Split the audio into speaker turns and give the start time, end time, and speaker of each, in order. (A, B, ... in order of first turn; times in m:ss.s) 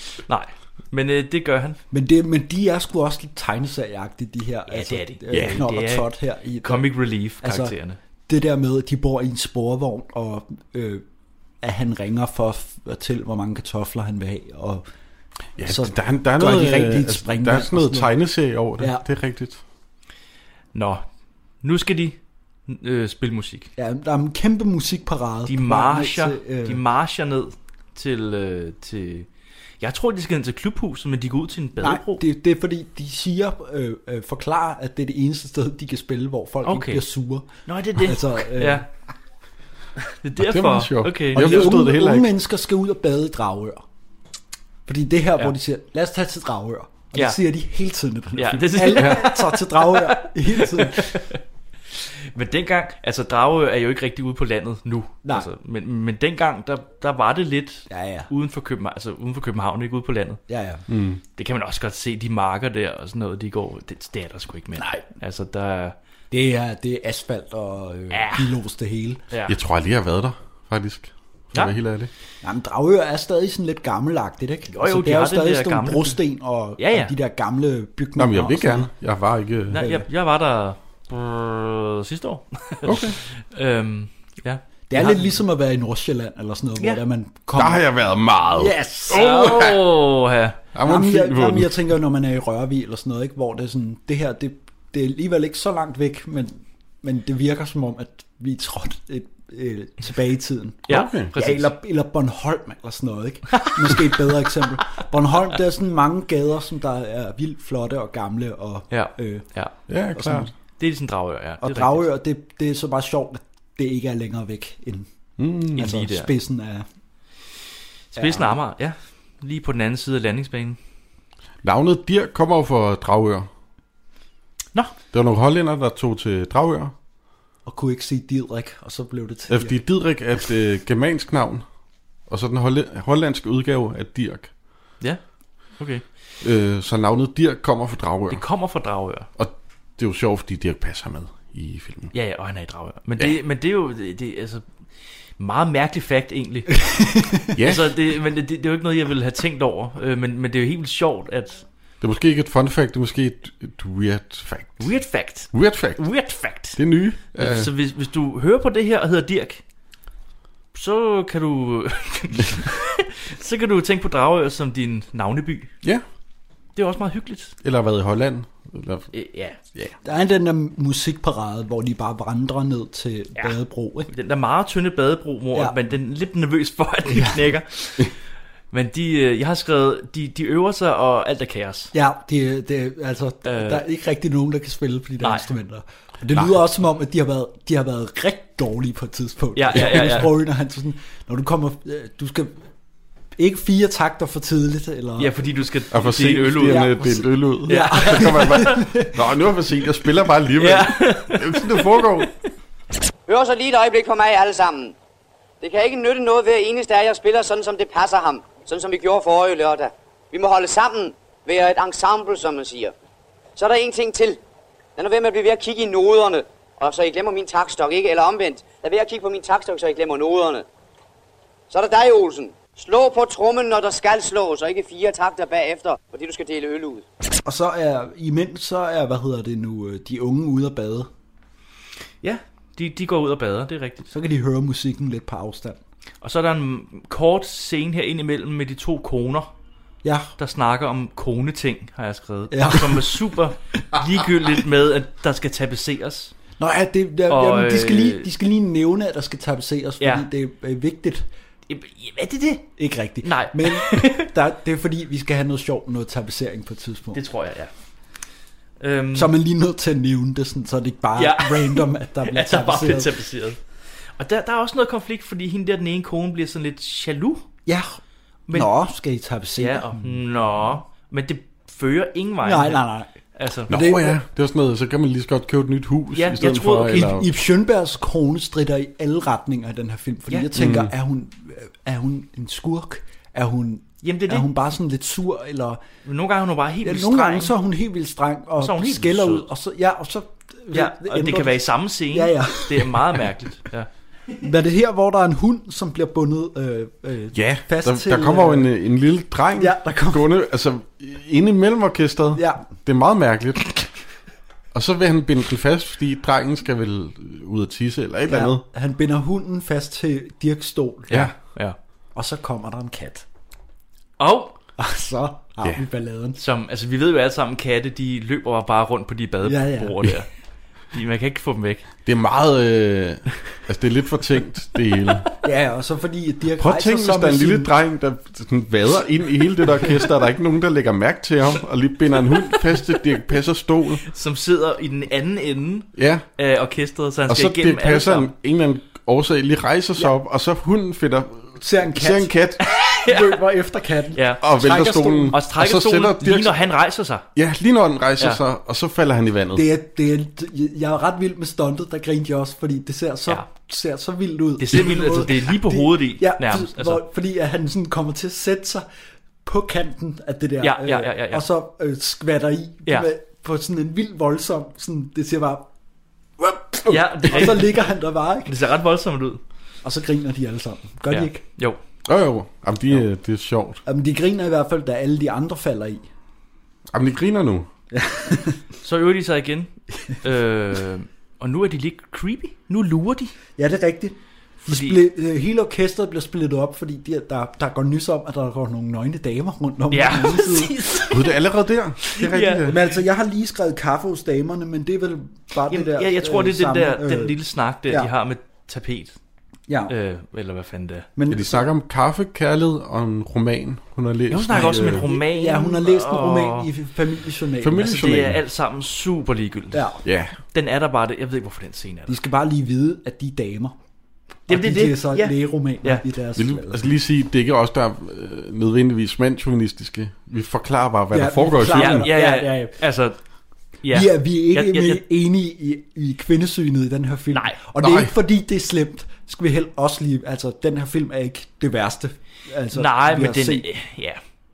0:00.3-0:01.8 A
0:01.9-0:07.7 B
0:04.7-0:06.1 A
0:05.3-0:05.6 C
0:06.6-0:08.0 A
0:08.3-0:11.0 B
0:11.6-0:14.8 B
0:15.6-0:19.6 C
0:15.6-0:18.1 B
0:20.7-0:21.0 A
0:21.6-0:23.7 A
0:23.8-0:26.8 B
0:25.5-0:29.3 A
0:29.8-0:32.2 A
0:31.8-0:38.8 B
0:36.6-0:37.0 A
0:37.7-0:38.9 A
0:40.2-0:41.8 A
0:40.4-0:42.3 C
0:41.4-0:43.8 B
0:44.9-0:51.2 B
0:48.4-0:51.4 A
0:49.0-0:49.2 C
0:51.9-1:00.4 A
0:57.9-0:58.3 B
1:00.5-1:00.8 B
1:00.9-1:01.2 C
1:01.4-1:06.0 A
1:04.8-1:05.0 B
1:06.3-1:09.2 B
1:08.1-1:08.6 A
1:09.3-1:09.6 A
1:09.5-1:12.1 C
1:12.4-1:18.9 B
1:14.7-1:16.2 A
1:16.8-1:17.1 A
1:18.2-1:19.8 C
1:19.7-1:20.0 B
1:19.7-1:25.4 A
1:22.8-1:23.2 C
1:24.9-1:27.8 B
1:27.6-1:29.8 C
1:28.6-1:29.7 B
1:29.1-1:30.6 A
1:30.7-1:31.8 C
1:30.8-1:49.5 B
1:40.9-1:41.7 A
1:40.9-1:41.3 C
1:43.6-1:44.2 A
1:48.9-1:49.7 A
1:49.9-1:50.5 C
1:50.1-1:50.5 B
1:50.8-1:52.1 A
1:51.6-1:55.1 B
1:55.4-1:55.8 C
1:55.8-1:56.8 B
1:55.8-1:56.3 A
1:58.1-2:00.8 A
1:58.2-1:58.6 B
2:01.6-2:03.5 C
2:05.1-2:06.9 C
2:07.7-2:09.8 B
2:09.5-2:11.6 C
2:12.3-2:14.5 C
2:15.8-2:16.0 A
2:16.4-2:18.4 C
2:18.3-2:19.3 A
2:19.4-2:22.1 C
2:22.1-2:24.6 A
2:25.4-2:26.9 A
2:26.9-2:27.4 B
2:27.6-2:27.9 C
2:27.6-2:31.6 A
2:32.0-2:34.9 C
2:34.8-2:36.8 A
2:35.5-2:36.0 C
2:36.7-2:37.7 C
2:37.4-2:39.6 A
2:40.7-2:45.7 A
2:46.8-2:47.6 A
2:47.6-2:49.1 C
2:49.1-2:49.6 A
2:50.0-2:54.1 B
2:54.1-2:58.2 A
2:57.1-2:57.5 B
2:58.7-3:01.9 A
3:01.9-3:12.6 B
3:03.4-3:03.8 A
3:05.2-3:05.5 A
3:09.6-3:10.4 A
3:09.7-3:10.0 C
3:13.4-3:15.4 B
3:15.2-3:18.8 A
3:15.9-3:22.3 C
3:16.6-3:19.1 B
3:20.6-3:22.3 A
3:23.3-3:25.0 D
3:25.6-3:32.9 D
3:33.6-3:34.4 D
3:35.0-3:40.7 D
3:41.7-3:47.1 D
3:47.4-3:51.1 B
3:52.2-3:54.1 A
3:54.1-3:55.8 B
3:56.2-3:59.5 A
4:00.0-4:00.3 B
4:00.4-4:06.3 A
4:02.5-4:03.3 B
4:06.6-4:11.3 B
4:07.3-4:08.3 A
4:10.0-4:10.3 A
4:11.7-4:14.3 A
4:12.8-4:17.2 B
4:17.1-4:17.7 A
4:18.8-4:19.3 A
4:19.1-4:23.1 B
4:21.2-4:23.6 A
4:24.2-4:27.4 A
4:27.7-4:28.0 B
4:28.5-4:30.2 B
4:29.6-4:32.8 A
4:32.4-4:33.1 B
4:33.4-4:33.7 A
4:33.7-4:37.3 C
4:33.7-4:34.2 B
4:36.1-4:37.1 A
4:36.9-4:45.8 B
4:40.6-4:40.9 C
4:44.0-4:44.5 A
4:46.0-4:47.6 A
4:46.8-4:53.2 B
4:48.6-4:49.5 A
4:50.7-4:53.9 A
4:54.4-4:58.7 B
4:57.3-5:03.8 C
4:59.6-5:00.2 B
5:02.3-5:02.6 B
5:04.7-5:08.6 C
5:08.3-5:11.2 B
5:11.1-5:11.8 A
5:12.2-5:13.2 B
5:14.2-5:14.5 A
5:14.8-5:16.4 B
5:16.4-5:20.3 A
5:19.4-5:20.1 B
5:20.9-5:21.8 A
5:22.1-5:25.3 C
5:25.4-5:27.7 B
5:26.6-5:34.0 C
5:34.1-5:38.3 A
5:36.0-5:36.2 C
5:37.3-5:42.6 C
5:41.6-5:42.4 B
5:42.6-5:43.4 A
5:43.0-5:45.4 B
5:44.2-5:47.2 A
5:44.4-5:46.6 C
5:47.4-5:49.7 C
5:49.5-5:58.9 B
5:54.6-5:57.0 A
5:59.4-6:05.7 B
6:00.6-6:01.4 A
6:06.4-6:08.5 B
6:06.9-6:07.9 A
6:08.5-6:09.4 A
6:09.8-6:11.4 B
6:11.1-6:11.8 A
6:12.1-6:13.8 C
6:13.9-6:16.0 B
6:16.9-6:17.7 C
6:17.9-6:18.6 B
6:18.8-6:19.7 A
6:20.2-6:23.3 A
6:23.6-6:30.8 B
6:24.7-6:25.0 A
6:29.9-6:31.4 A
6:31.1-6:32.8 C
6:32.1-6:32.9 A
6:32.6-6:37.4 B
6:35.7-6:39.2 A
6:39.9-6:41.1 A
6:41.2-6:41.6 B
6:41.3-6:45.1 C
6:44.3-6:46.7 A
6:44.5-6:48.2 B
6:47.6-6:48.4 C
6:47.8-6:50.0 A
6:49.7-6:50.0 B
6:50.0-6:50.4 C
6:50.5-6:52.2 A
6:52.1-6:53.8 B
6:54.5-6:56.0 A
6:54.5-6:56.9 B
6:56.4-7:02.1 C
7:01.1-7:02.8 B
7:01.7-7:03.2 A
7:03.8-7:05.0 A
7:03.9-7:13.7 B
7:07.3-7:07.6 A
7:07.8-7:08.1 C
7:12.7-7:14.2 A